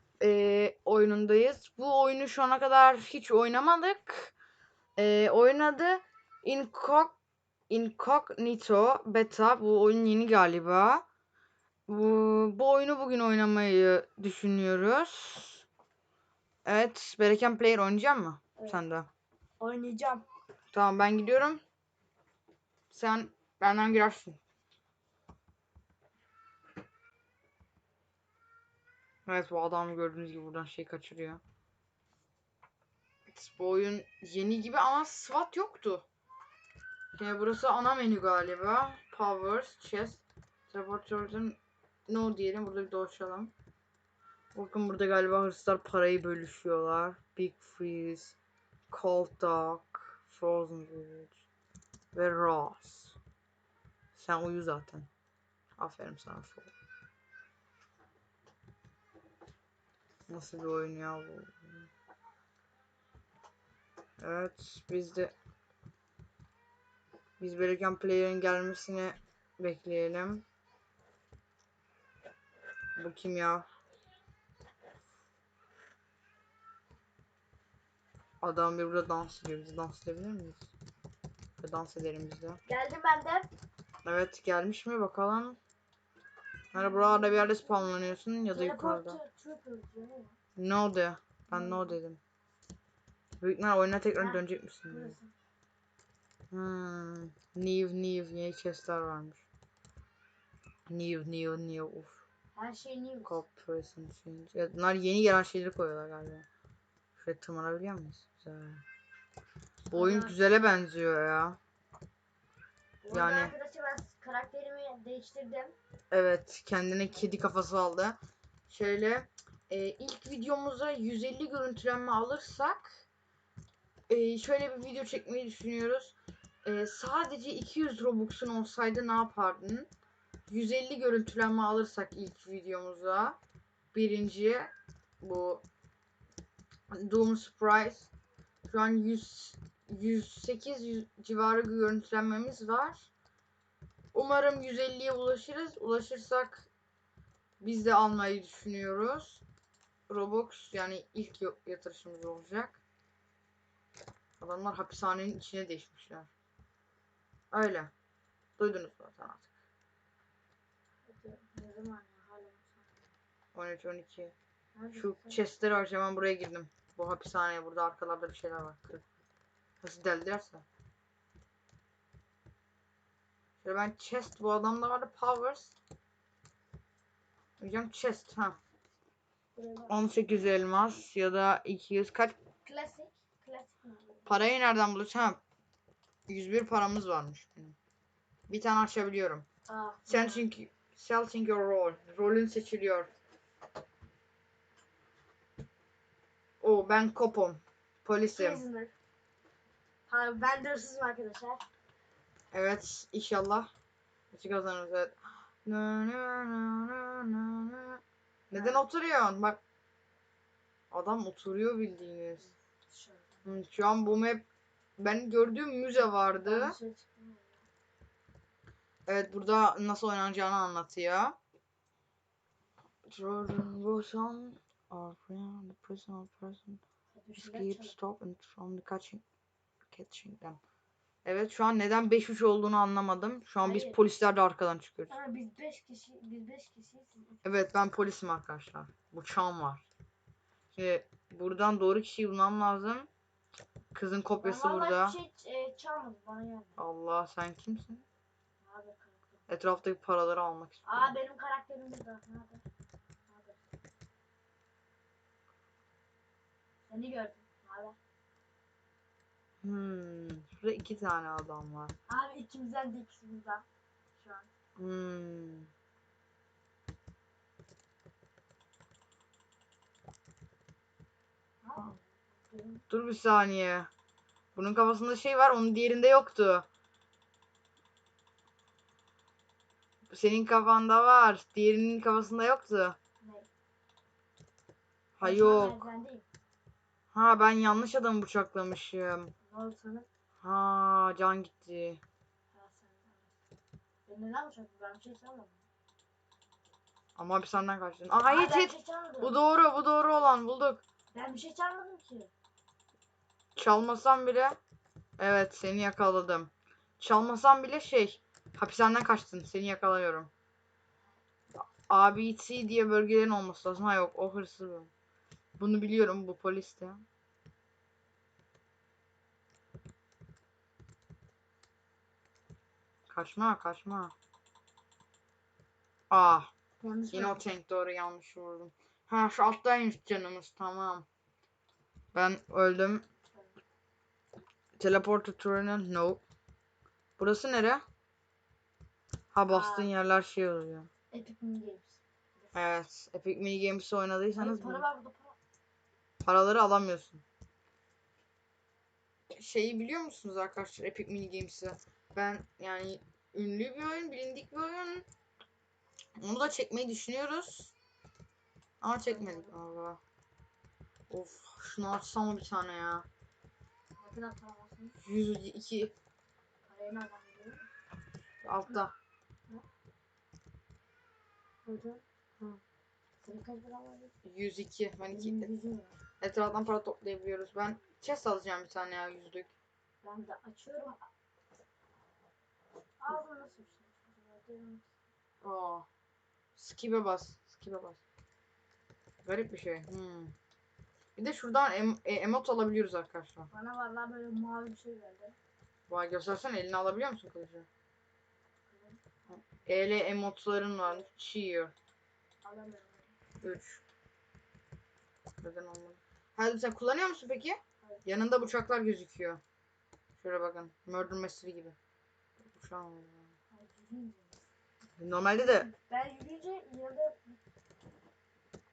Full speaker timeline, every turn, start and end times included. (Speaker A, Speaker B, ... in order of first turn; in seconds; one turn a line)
Speaker A: 0.2-4.3
Speaker A: 5.0-7.2
Speaker A: 7.7-11.1
Speaker A: 11.9-15.7
Speaker A: 16.6-19.1
Speaker B: 19.6-20.2
Speaker A: 20.7-21.6
Speaker A: 22.9-24.4
Speaker A: 29.3-31.4
Speaker A: 33.3-36.0
Speaker A: 37.1-41.6
Speaker A: 42.1-43.5
Speaker A: 44.5-48.4
Speaker A: 48.9-51.4
Speaker A: 52.1-53.2
Speaker A: 54.1-55.1
Speaker A: 55.8-56.7
Speaker A: 60.3-61.9
Speaker A: 64.2-65.3
Speaker A: 67.4-70.4
Speaker A: 73.0-73.7
Speaker A: 78.4-80.7
Speaker A: 81.6-82.6
Speaker B: 82.7-83.5
Speaker A: 84.0-85.6
Speaker A: 86.7-89.2
Speaker B: 86.7-88.0
Speaker B: 88.5-90.4
Speaker A: 90.6-92.2
Speaker B: 91.5-92.0
Speaker A: 93.4-95.2
Speaker B: 94.2-95.3
Speaker A: 96.5-99.5
Speaker A: 100.9-102.2
Speaker B: 102.5-103.4
Speaker A: 103.2-106.5
Speaker A: 107.2-108.8
Speaker A: 109.9-111.6
Speaker B: 109.9-110.4
Speaker B: 113.0-115.8
Speaker A: 113.1-113.5
Speaker A: 116.1-123.1
Speaker A: 124.1-129.9
Speaker A: 130.5-133.4
Speaker A: 133.9-135.6
Speaker A: 136.9-138.1
Speaker A: 138.7-143.1
Speaker A: 144.1-146.7
Speaker A: 147.6-149.4
Speaker A: 150.1-152.8
Speaker A: 154.4-156.3
Speaker A: 157.5-157.9
Speaker A: 158.6-159.5
Speaker B: 161.1-163.1
Speaker A: 163.6-164.3
Speaker B: 164.8-165.4
Speaker A: 164.9-169.0
Speaker A: 169.8-170.7
Speaker A: 173.6-175.8
Speaker A: 177.6-178.6
Speaker B: 179.6-180.0
Speaker A: 179.9-182.4
Speaker B: 182.6-184.4
Speaker A: 184.3-185.4
Speaker A: 186.3-187.8
Speaker A: 188.5-189.5
Speaker B: 189.7-190.4
Speaker A: 190.1-193.1
Speaker A: 196.6-198.6
Speaker B: 198.3-198.9
Speaker B: 200.1-201.7
Speaker A: 202.5-203.7
Speaker A: 204.3-209.6
Speaker B: 208.5-208.8
Speaker A: 210.9-212.5
Speaker B: 212.4-213.4
Speaker A: 213.4-214.4
Speaker A: 215.0-216.8
Speaker B: 216.4-217.7
Speaker A: 219.1-221.4
Speaker A: 223.1-226.8
Speaker B: 227.1-227.9
Speaker A: 227.4-229.2
Speaker A: 229.9-230.6
Speaker A: 231.2-235.1
Speaker B: 233.6-234.0
Speaker B: 235.1-237.4
Speaker A: 237.4-239.9
Speaker A: 240.7-243.1
Speaker A: 243.9-245.2
Speaker B: 244.4-246.8
Speaker A: 246.8-248.1
Speaker B: 248.6-249.3
Speaker A: 249.5-251.2
Speaker B: 250.8-252.6
Speaker B: 253.3-253.6
Speaker B: 256.9-258.0
Speaker A: 259.6-261.9
Speaker B: 262.1-263.6
Speaker B: 264.2-264.5
Speaker A: 264.8-265.7
Speaker B: 271.6-272.9
Speaker A: 272.9-273.9
Speaker A: 274.6-276.7
Speaker A: 280.1-283.0
Speaker B: 283.2-283.5
Speaker A: 285.2-285.9
Speaker B: 285.2-286.2
Speaker A: 287.1-289.3
Speaker B: 289.5-290.1
Speaker A: 290.4-292.0
Speaker B: 292.5-293.3
Speaker B: 294.1-295.6
Speaker A: 297.2-300.8
Speaker B: 298.2-299.4
Speaker B: 301.1-302.3
Speaker A: 303.6-304.6
Speaker A: 305.2-310.3
Speaker A: 311.6-314.9
Speaker A: 315.6-317.0
Speaker A: 323.1-324.1
Speaker A: 326.1-326.5
Speaker B: 326.8-327.4
Speaker A: 327.1-331.1
Speaker A: 332.1-333.1
Speaker A: 334.8-336.2
Speaker A: 337.2-337.8
Speaker A: 339.3-340.9
Speaker B: 339.5-339.9
Speaker B: 341.1-342.6
Speaker A: 342.5-344.9
Speaker B: 344.4-345.4
Speaker A: 346.2-347.2
Speaker A: 349.3-355.1
Speaker A: 356.2-357.7
Speaker A: 358.8-360.0
Speaker B: 359.1-359.6
Speaker A: 361.1-363.1
Speaker B: 364.0-365.0
Speaker A: 365.0-365.9
Speaker B: 366.7-367.7
Speaker A: 368.4-368.9
Speaker B: 371.7-372.5
Speaker B: 373.2-374.1
Speaker A: 374.2-375.5
Speaker B: 375.1-375.9
Speaker A: 376.2-379.5
Speaker B: 380.0-381.0
Speaker B: 383.0-384.9
Speaker A: 385.4-385.9
Speaker A: 386.6-388.0
Speaker A: 389.2-390.3
Speaker A: 391.2-393.5
Speaker B: 393.5-395.4
Speaker A: 395.9-397.7
Speaker B: 398.7-399.0
Speaker A: 399.3-401.7
Speaker B: 402.4-403.1
Speaker A: 403.4-403.8
Speaker A: 405.4-409.4
Speaker A: 410.2-411.8
Speaker A: 412.5-413.3
Speaker B: 413.5-414.4
Speaker A: 415.0-415.7
Speaker B: 415.4-417.4